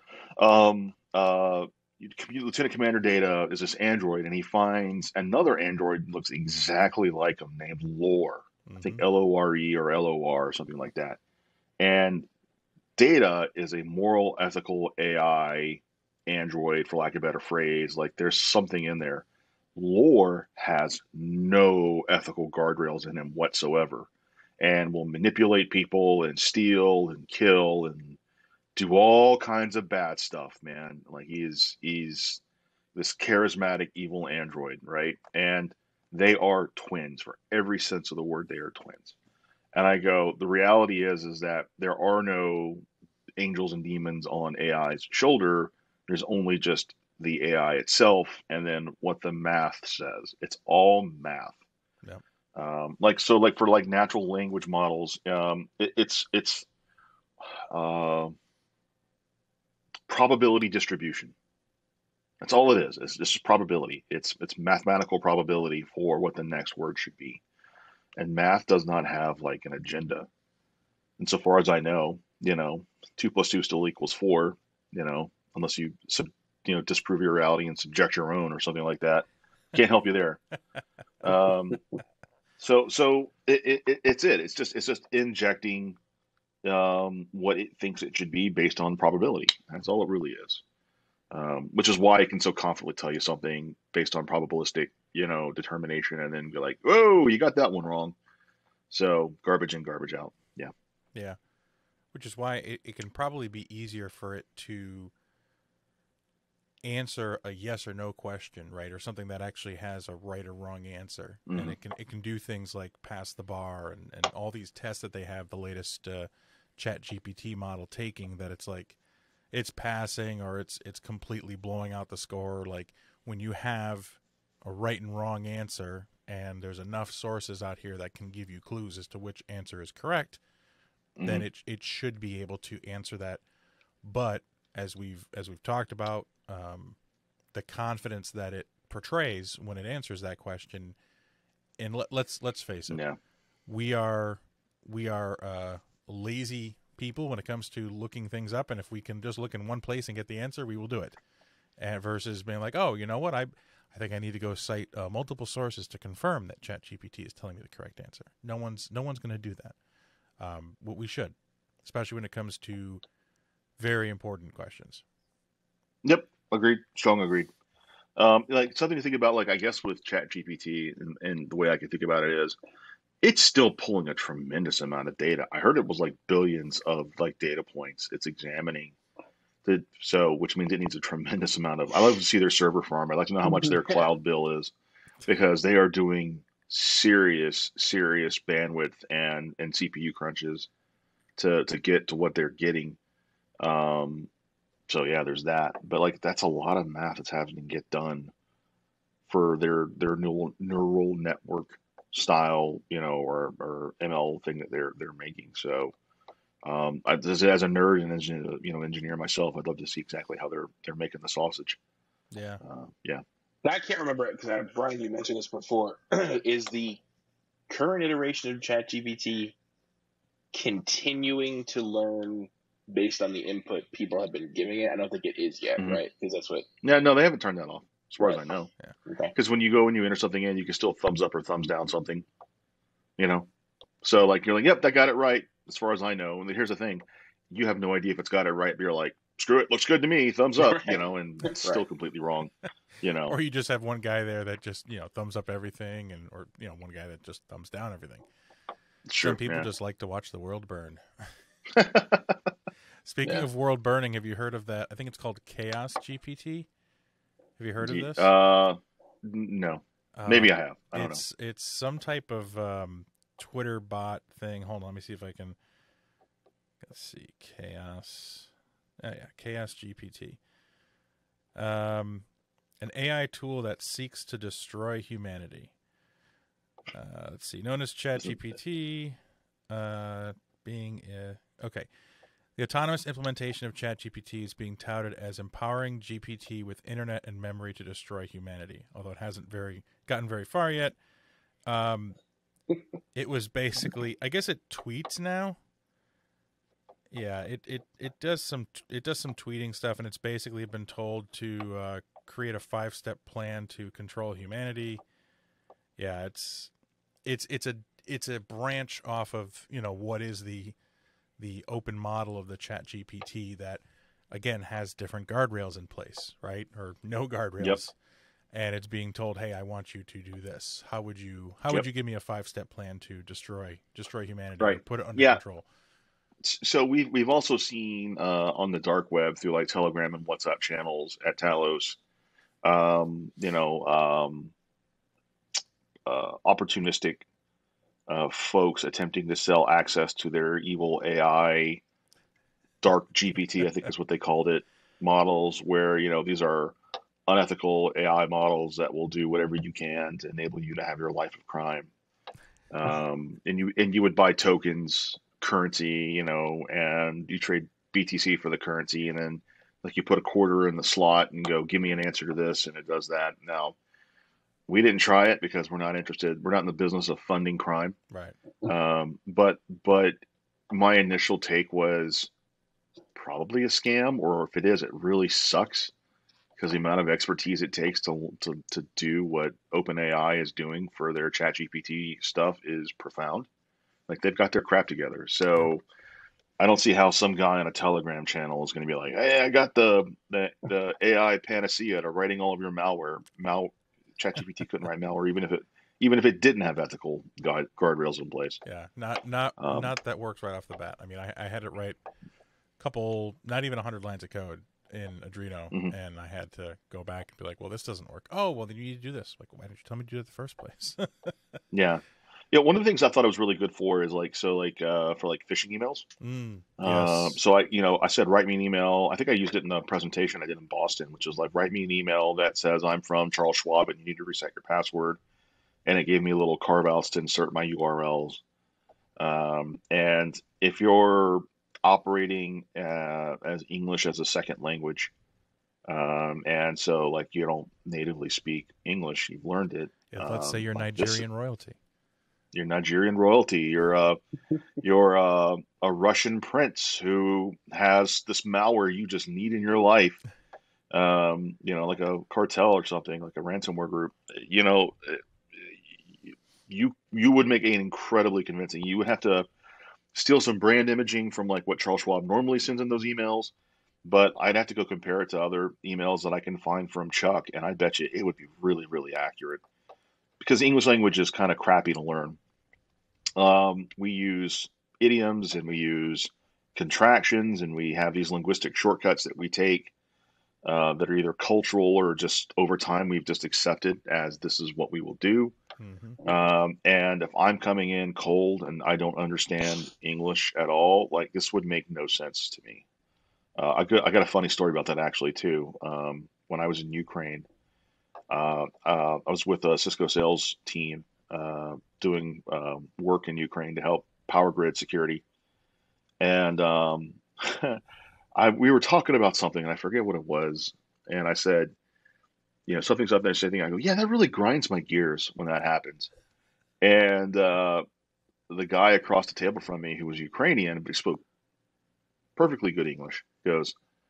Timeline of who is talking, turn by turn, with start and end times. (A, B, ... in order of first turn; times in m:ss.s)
0:00.4-0:11.2 A
0:08.6-0:09.0 B
0:11.8-0:12.3 A
0:13.0-0:19.2 A
0:19.8-0:28.2 A
0:28.7-0:32.4 A
0:32.9-0:39.1 A
0:39.7-0:42.8 A
0:43.4-0:51.6 A
0:52.5-0:56.6 A
0:57.7-0:58.4 A
1:00.1-1:01.3 A
1:02.4-1:07.4 A
1:08.2-1:10.3 A
1:11.2-1:20.4 A
1:21.2-1:21.8 A
1:22.6-1:26.0 A
1:26.6-1:30.6 A
1:31.3-1:38.1 A
1:38.9-1:40.7 A
1:42.1-1:45.1 B
1:46.8-1:59.0 B
1:51.5-1:51.8 A
1:59.5-2:10.4 B
2:11.2-2:11.5 A
2:11.2-2:13.4 B
2:14.0-2:17.0 B
2:17.5-2:21.0 B
2:21.8-2:23.0 B
2:22.9-2:23.2 A
2:23.6-2:31.2 B
2:31.8-2:39.8 B
2:40.4-2:43.0 B
2:43.8-2:45.0 B
2:46.0-2:47.5 A
2:48.2-2:52.6 A
2:53.2-2:58.9 A
2:59.6-3:04.7 A
3:03.4-3:03.7 C
3:05.2-3:10.7 A
3:11.4-3:13.0 A
3:13.6-3:14.3 A
3:14.9-3:18.3 A
3:19.3-3:25.9 A
3:26.6-3:31.8 A
3:32.3-3:32.6 B
3:32.6-3:33.2 A
3:33.6-3:37.0 C
3:37.7-3:39.6 C
3:40.5-3:46.7 C
3:45.8-3:46.0 A
3:46.8-3:48.7 A
3:49.1-3:49.3 C
3:49.3-3:52.2 A
3:53.2-3:53.5 A
3:54.0-4:03.4 A
4:00.6-4:01.8 C
4:03.3-4:08.2 B
4:09.0-4:09.7 A
4:09.2-4:11.0 B
4:11.7-4:12.3 A
4:13.0-4:16.7 B
4:17.6-4:18.3 B
4:17.8-4:21.2 A
4:20.2-4:25.6 B
4:26.8-4:30.4 B
4:31.5-4:32.3 B
4:32.8-4:35.7 B
4:36.9-4:39.2 B
4:39.7-4:41.9 B
4:42.6-4:51.0 B
4:51.6-4:52.2 B
4:53.1-4:55.6 B
4:57.1-5:05.0 B
5:06.0-5:06.7 B
5:07.2-5:10.8 B
5:11.4-5:17.9 B
5:18.5-5:25.6 B
5:24.6-5:25.4 A
5:26.4-5:32.0 A
5:32.6-5:34.5 A
5:36.0-5:37.2 A
5:38.1-5:41.8 A
5:42.8-5:51.9 A
5:52.7-6:03.8 A
6:04.7-6:08.0 A
6:08.1-6:08.4 B
6:08.6-6:10.2 A
6:10.7-6:12.3 A
6:13.1-6:15.9 A
6:16.6-6:23.5 A
6:24.1-6:25.8 A
6:26.6-6:38.6 A
6:38.6-6:42.0 B
6:39.6-6:39.9 A
6:42.8-6:51.3 B
6:51.7-6:56.1 A
6:56.2-6:57.4 B
6:56.8-7:05.2 A
7:05.8-7:08.4 A
7:09.2-7:15.1 A
7:15.9-7:21.2 A
7:20.1-7:21.8 B
7:22.5-7:24.2 A
7:24.8-7:30.2 A
7:30.9-7:39.5 A
7:40.1-7:43.5 A
7:44.0-7:49.6 A
7:50.4-7:52.4 A
7:53.4-7:59.9 A
8:00.6-8:05.5 A
8:05.8-8:06.2 B
8:06.2-8:12.8 A
8:13.6-8:17.5 A
8:18.3-8:25.2 A
8:26.2-8:27.8 A
8:28.3-8:31.7 A
8:32.7-8:36.1 A
8:36.8-8:37.8 A
8:38.5-8:41.2 A
8:42.4-8:43.7 A